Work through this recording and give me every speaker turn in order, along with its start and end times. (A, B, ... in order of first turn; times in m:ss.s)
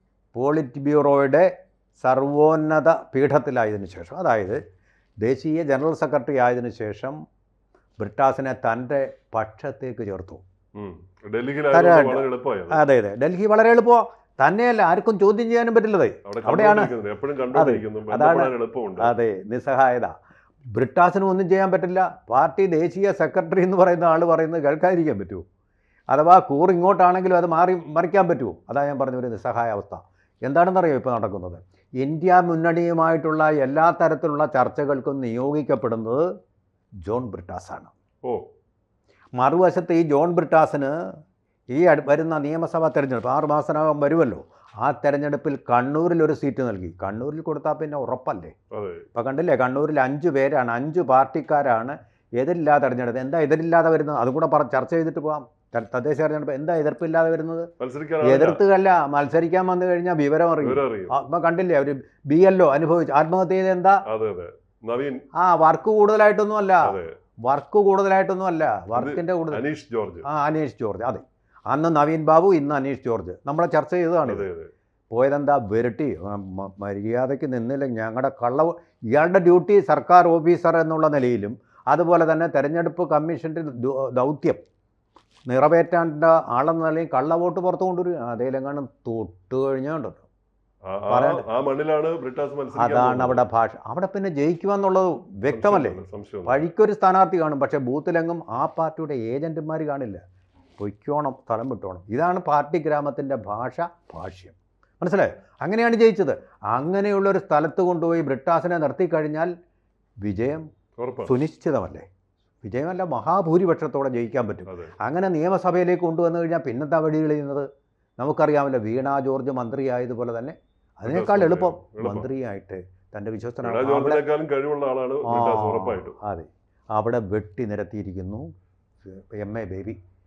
0:00.3-0:04.6 A
0:05.2-0:07.2 A
0:08.0-0:10.4 A
0:10.8-0:12.8 B
0:11.7-0:16.9 A
0:16.2-0:19.1 B
0:17.5-0:20.1 A
0:20.7-0:25.4 A
0:26.1-0:36.2 A
0:37.0-0:37.9 A
0:39.4-0:41.0 A
0:41.7-0:48.5 A
0:48.7-0:49.0 B
0:49.1-0:57.7 A
0:57.8-0:58.6 B
0:58.2-1:04.0 A
1:00.6-1:01.2 B
1:04.1-1:05.2 B
1:05.4-1:09.6 A
1:06.8-1:07.1 B
1:08.9-1:10.2 B
1:10.2-1:14.5 A
1:14.2-1:14.7 B
1:15.1-1:24.6 A
1:25.5-1:30.2 A
1:30.9-1:33.4 B
1:31.1-1:31.5 A
1:32.7-1:40.2 A
1:35.5-1:36.6 B
1:40.8-1:49.5 A
1:50.2-1:50.6 A
1:51.0-1:51.3 B
1:51.2-1:52.1 A
1:52.6-1:57.6 A
1:54.7-1:54.9 B
1:58.2-2:04.3 A
2:01.0-2:02.3 B
2:03.6-2:06.2 B
2:05.2-2:08.4 A
2:09.0-2:10.0 A